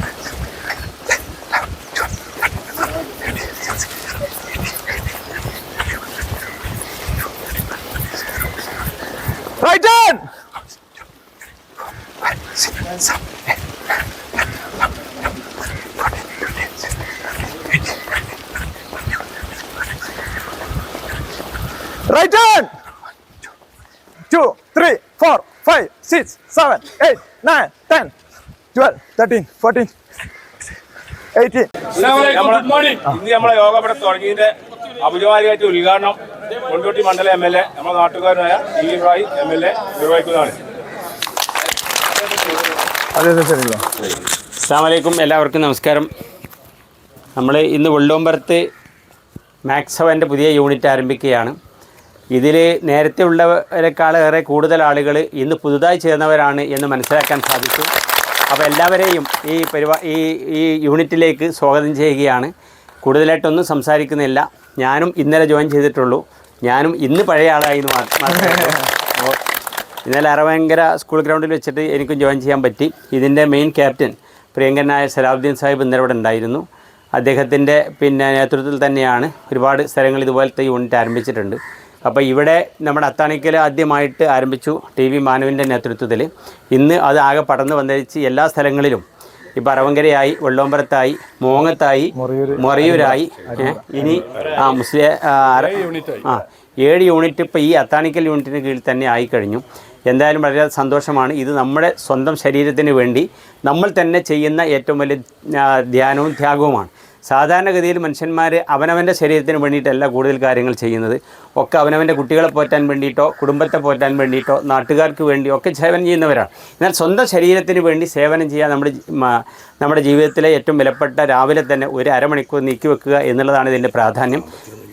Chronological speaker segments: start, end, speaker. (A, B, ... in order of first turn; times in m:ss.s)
0:09.6-0:10.2 A
0:12.8-0:13.1 A
0:22.1-0:22.7 A
0:24.3-0:28.1 A
0:28.7-0:29.9 A
0:31.4-0:31.7 A
0:32.0-0:40.6 B
0:43.2-0:43.8 A
0:44.6-0:46.1 C
0:47.4-0:48.6 C
0:49.7-0:51.6 C
0:52.3-0:57.9 C
0:58.5-1:02.5 C
1:03.0-1:09.3 C
1:08.5-1:08.8 A
1:10.0-1:16.6 C
1:17.2-1:29.0 C
1:29.6-2:04.5 C
1:32.2-1:34.2 A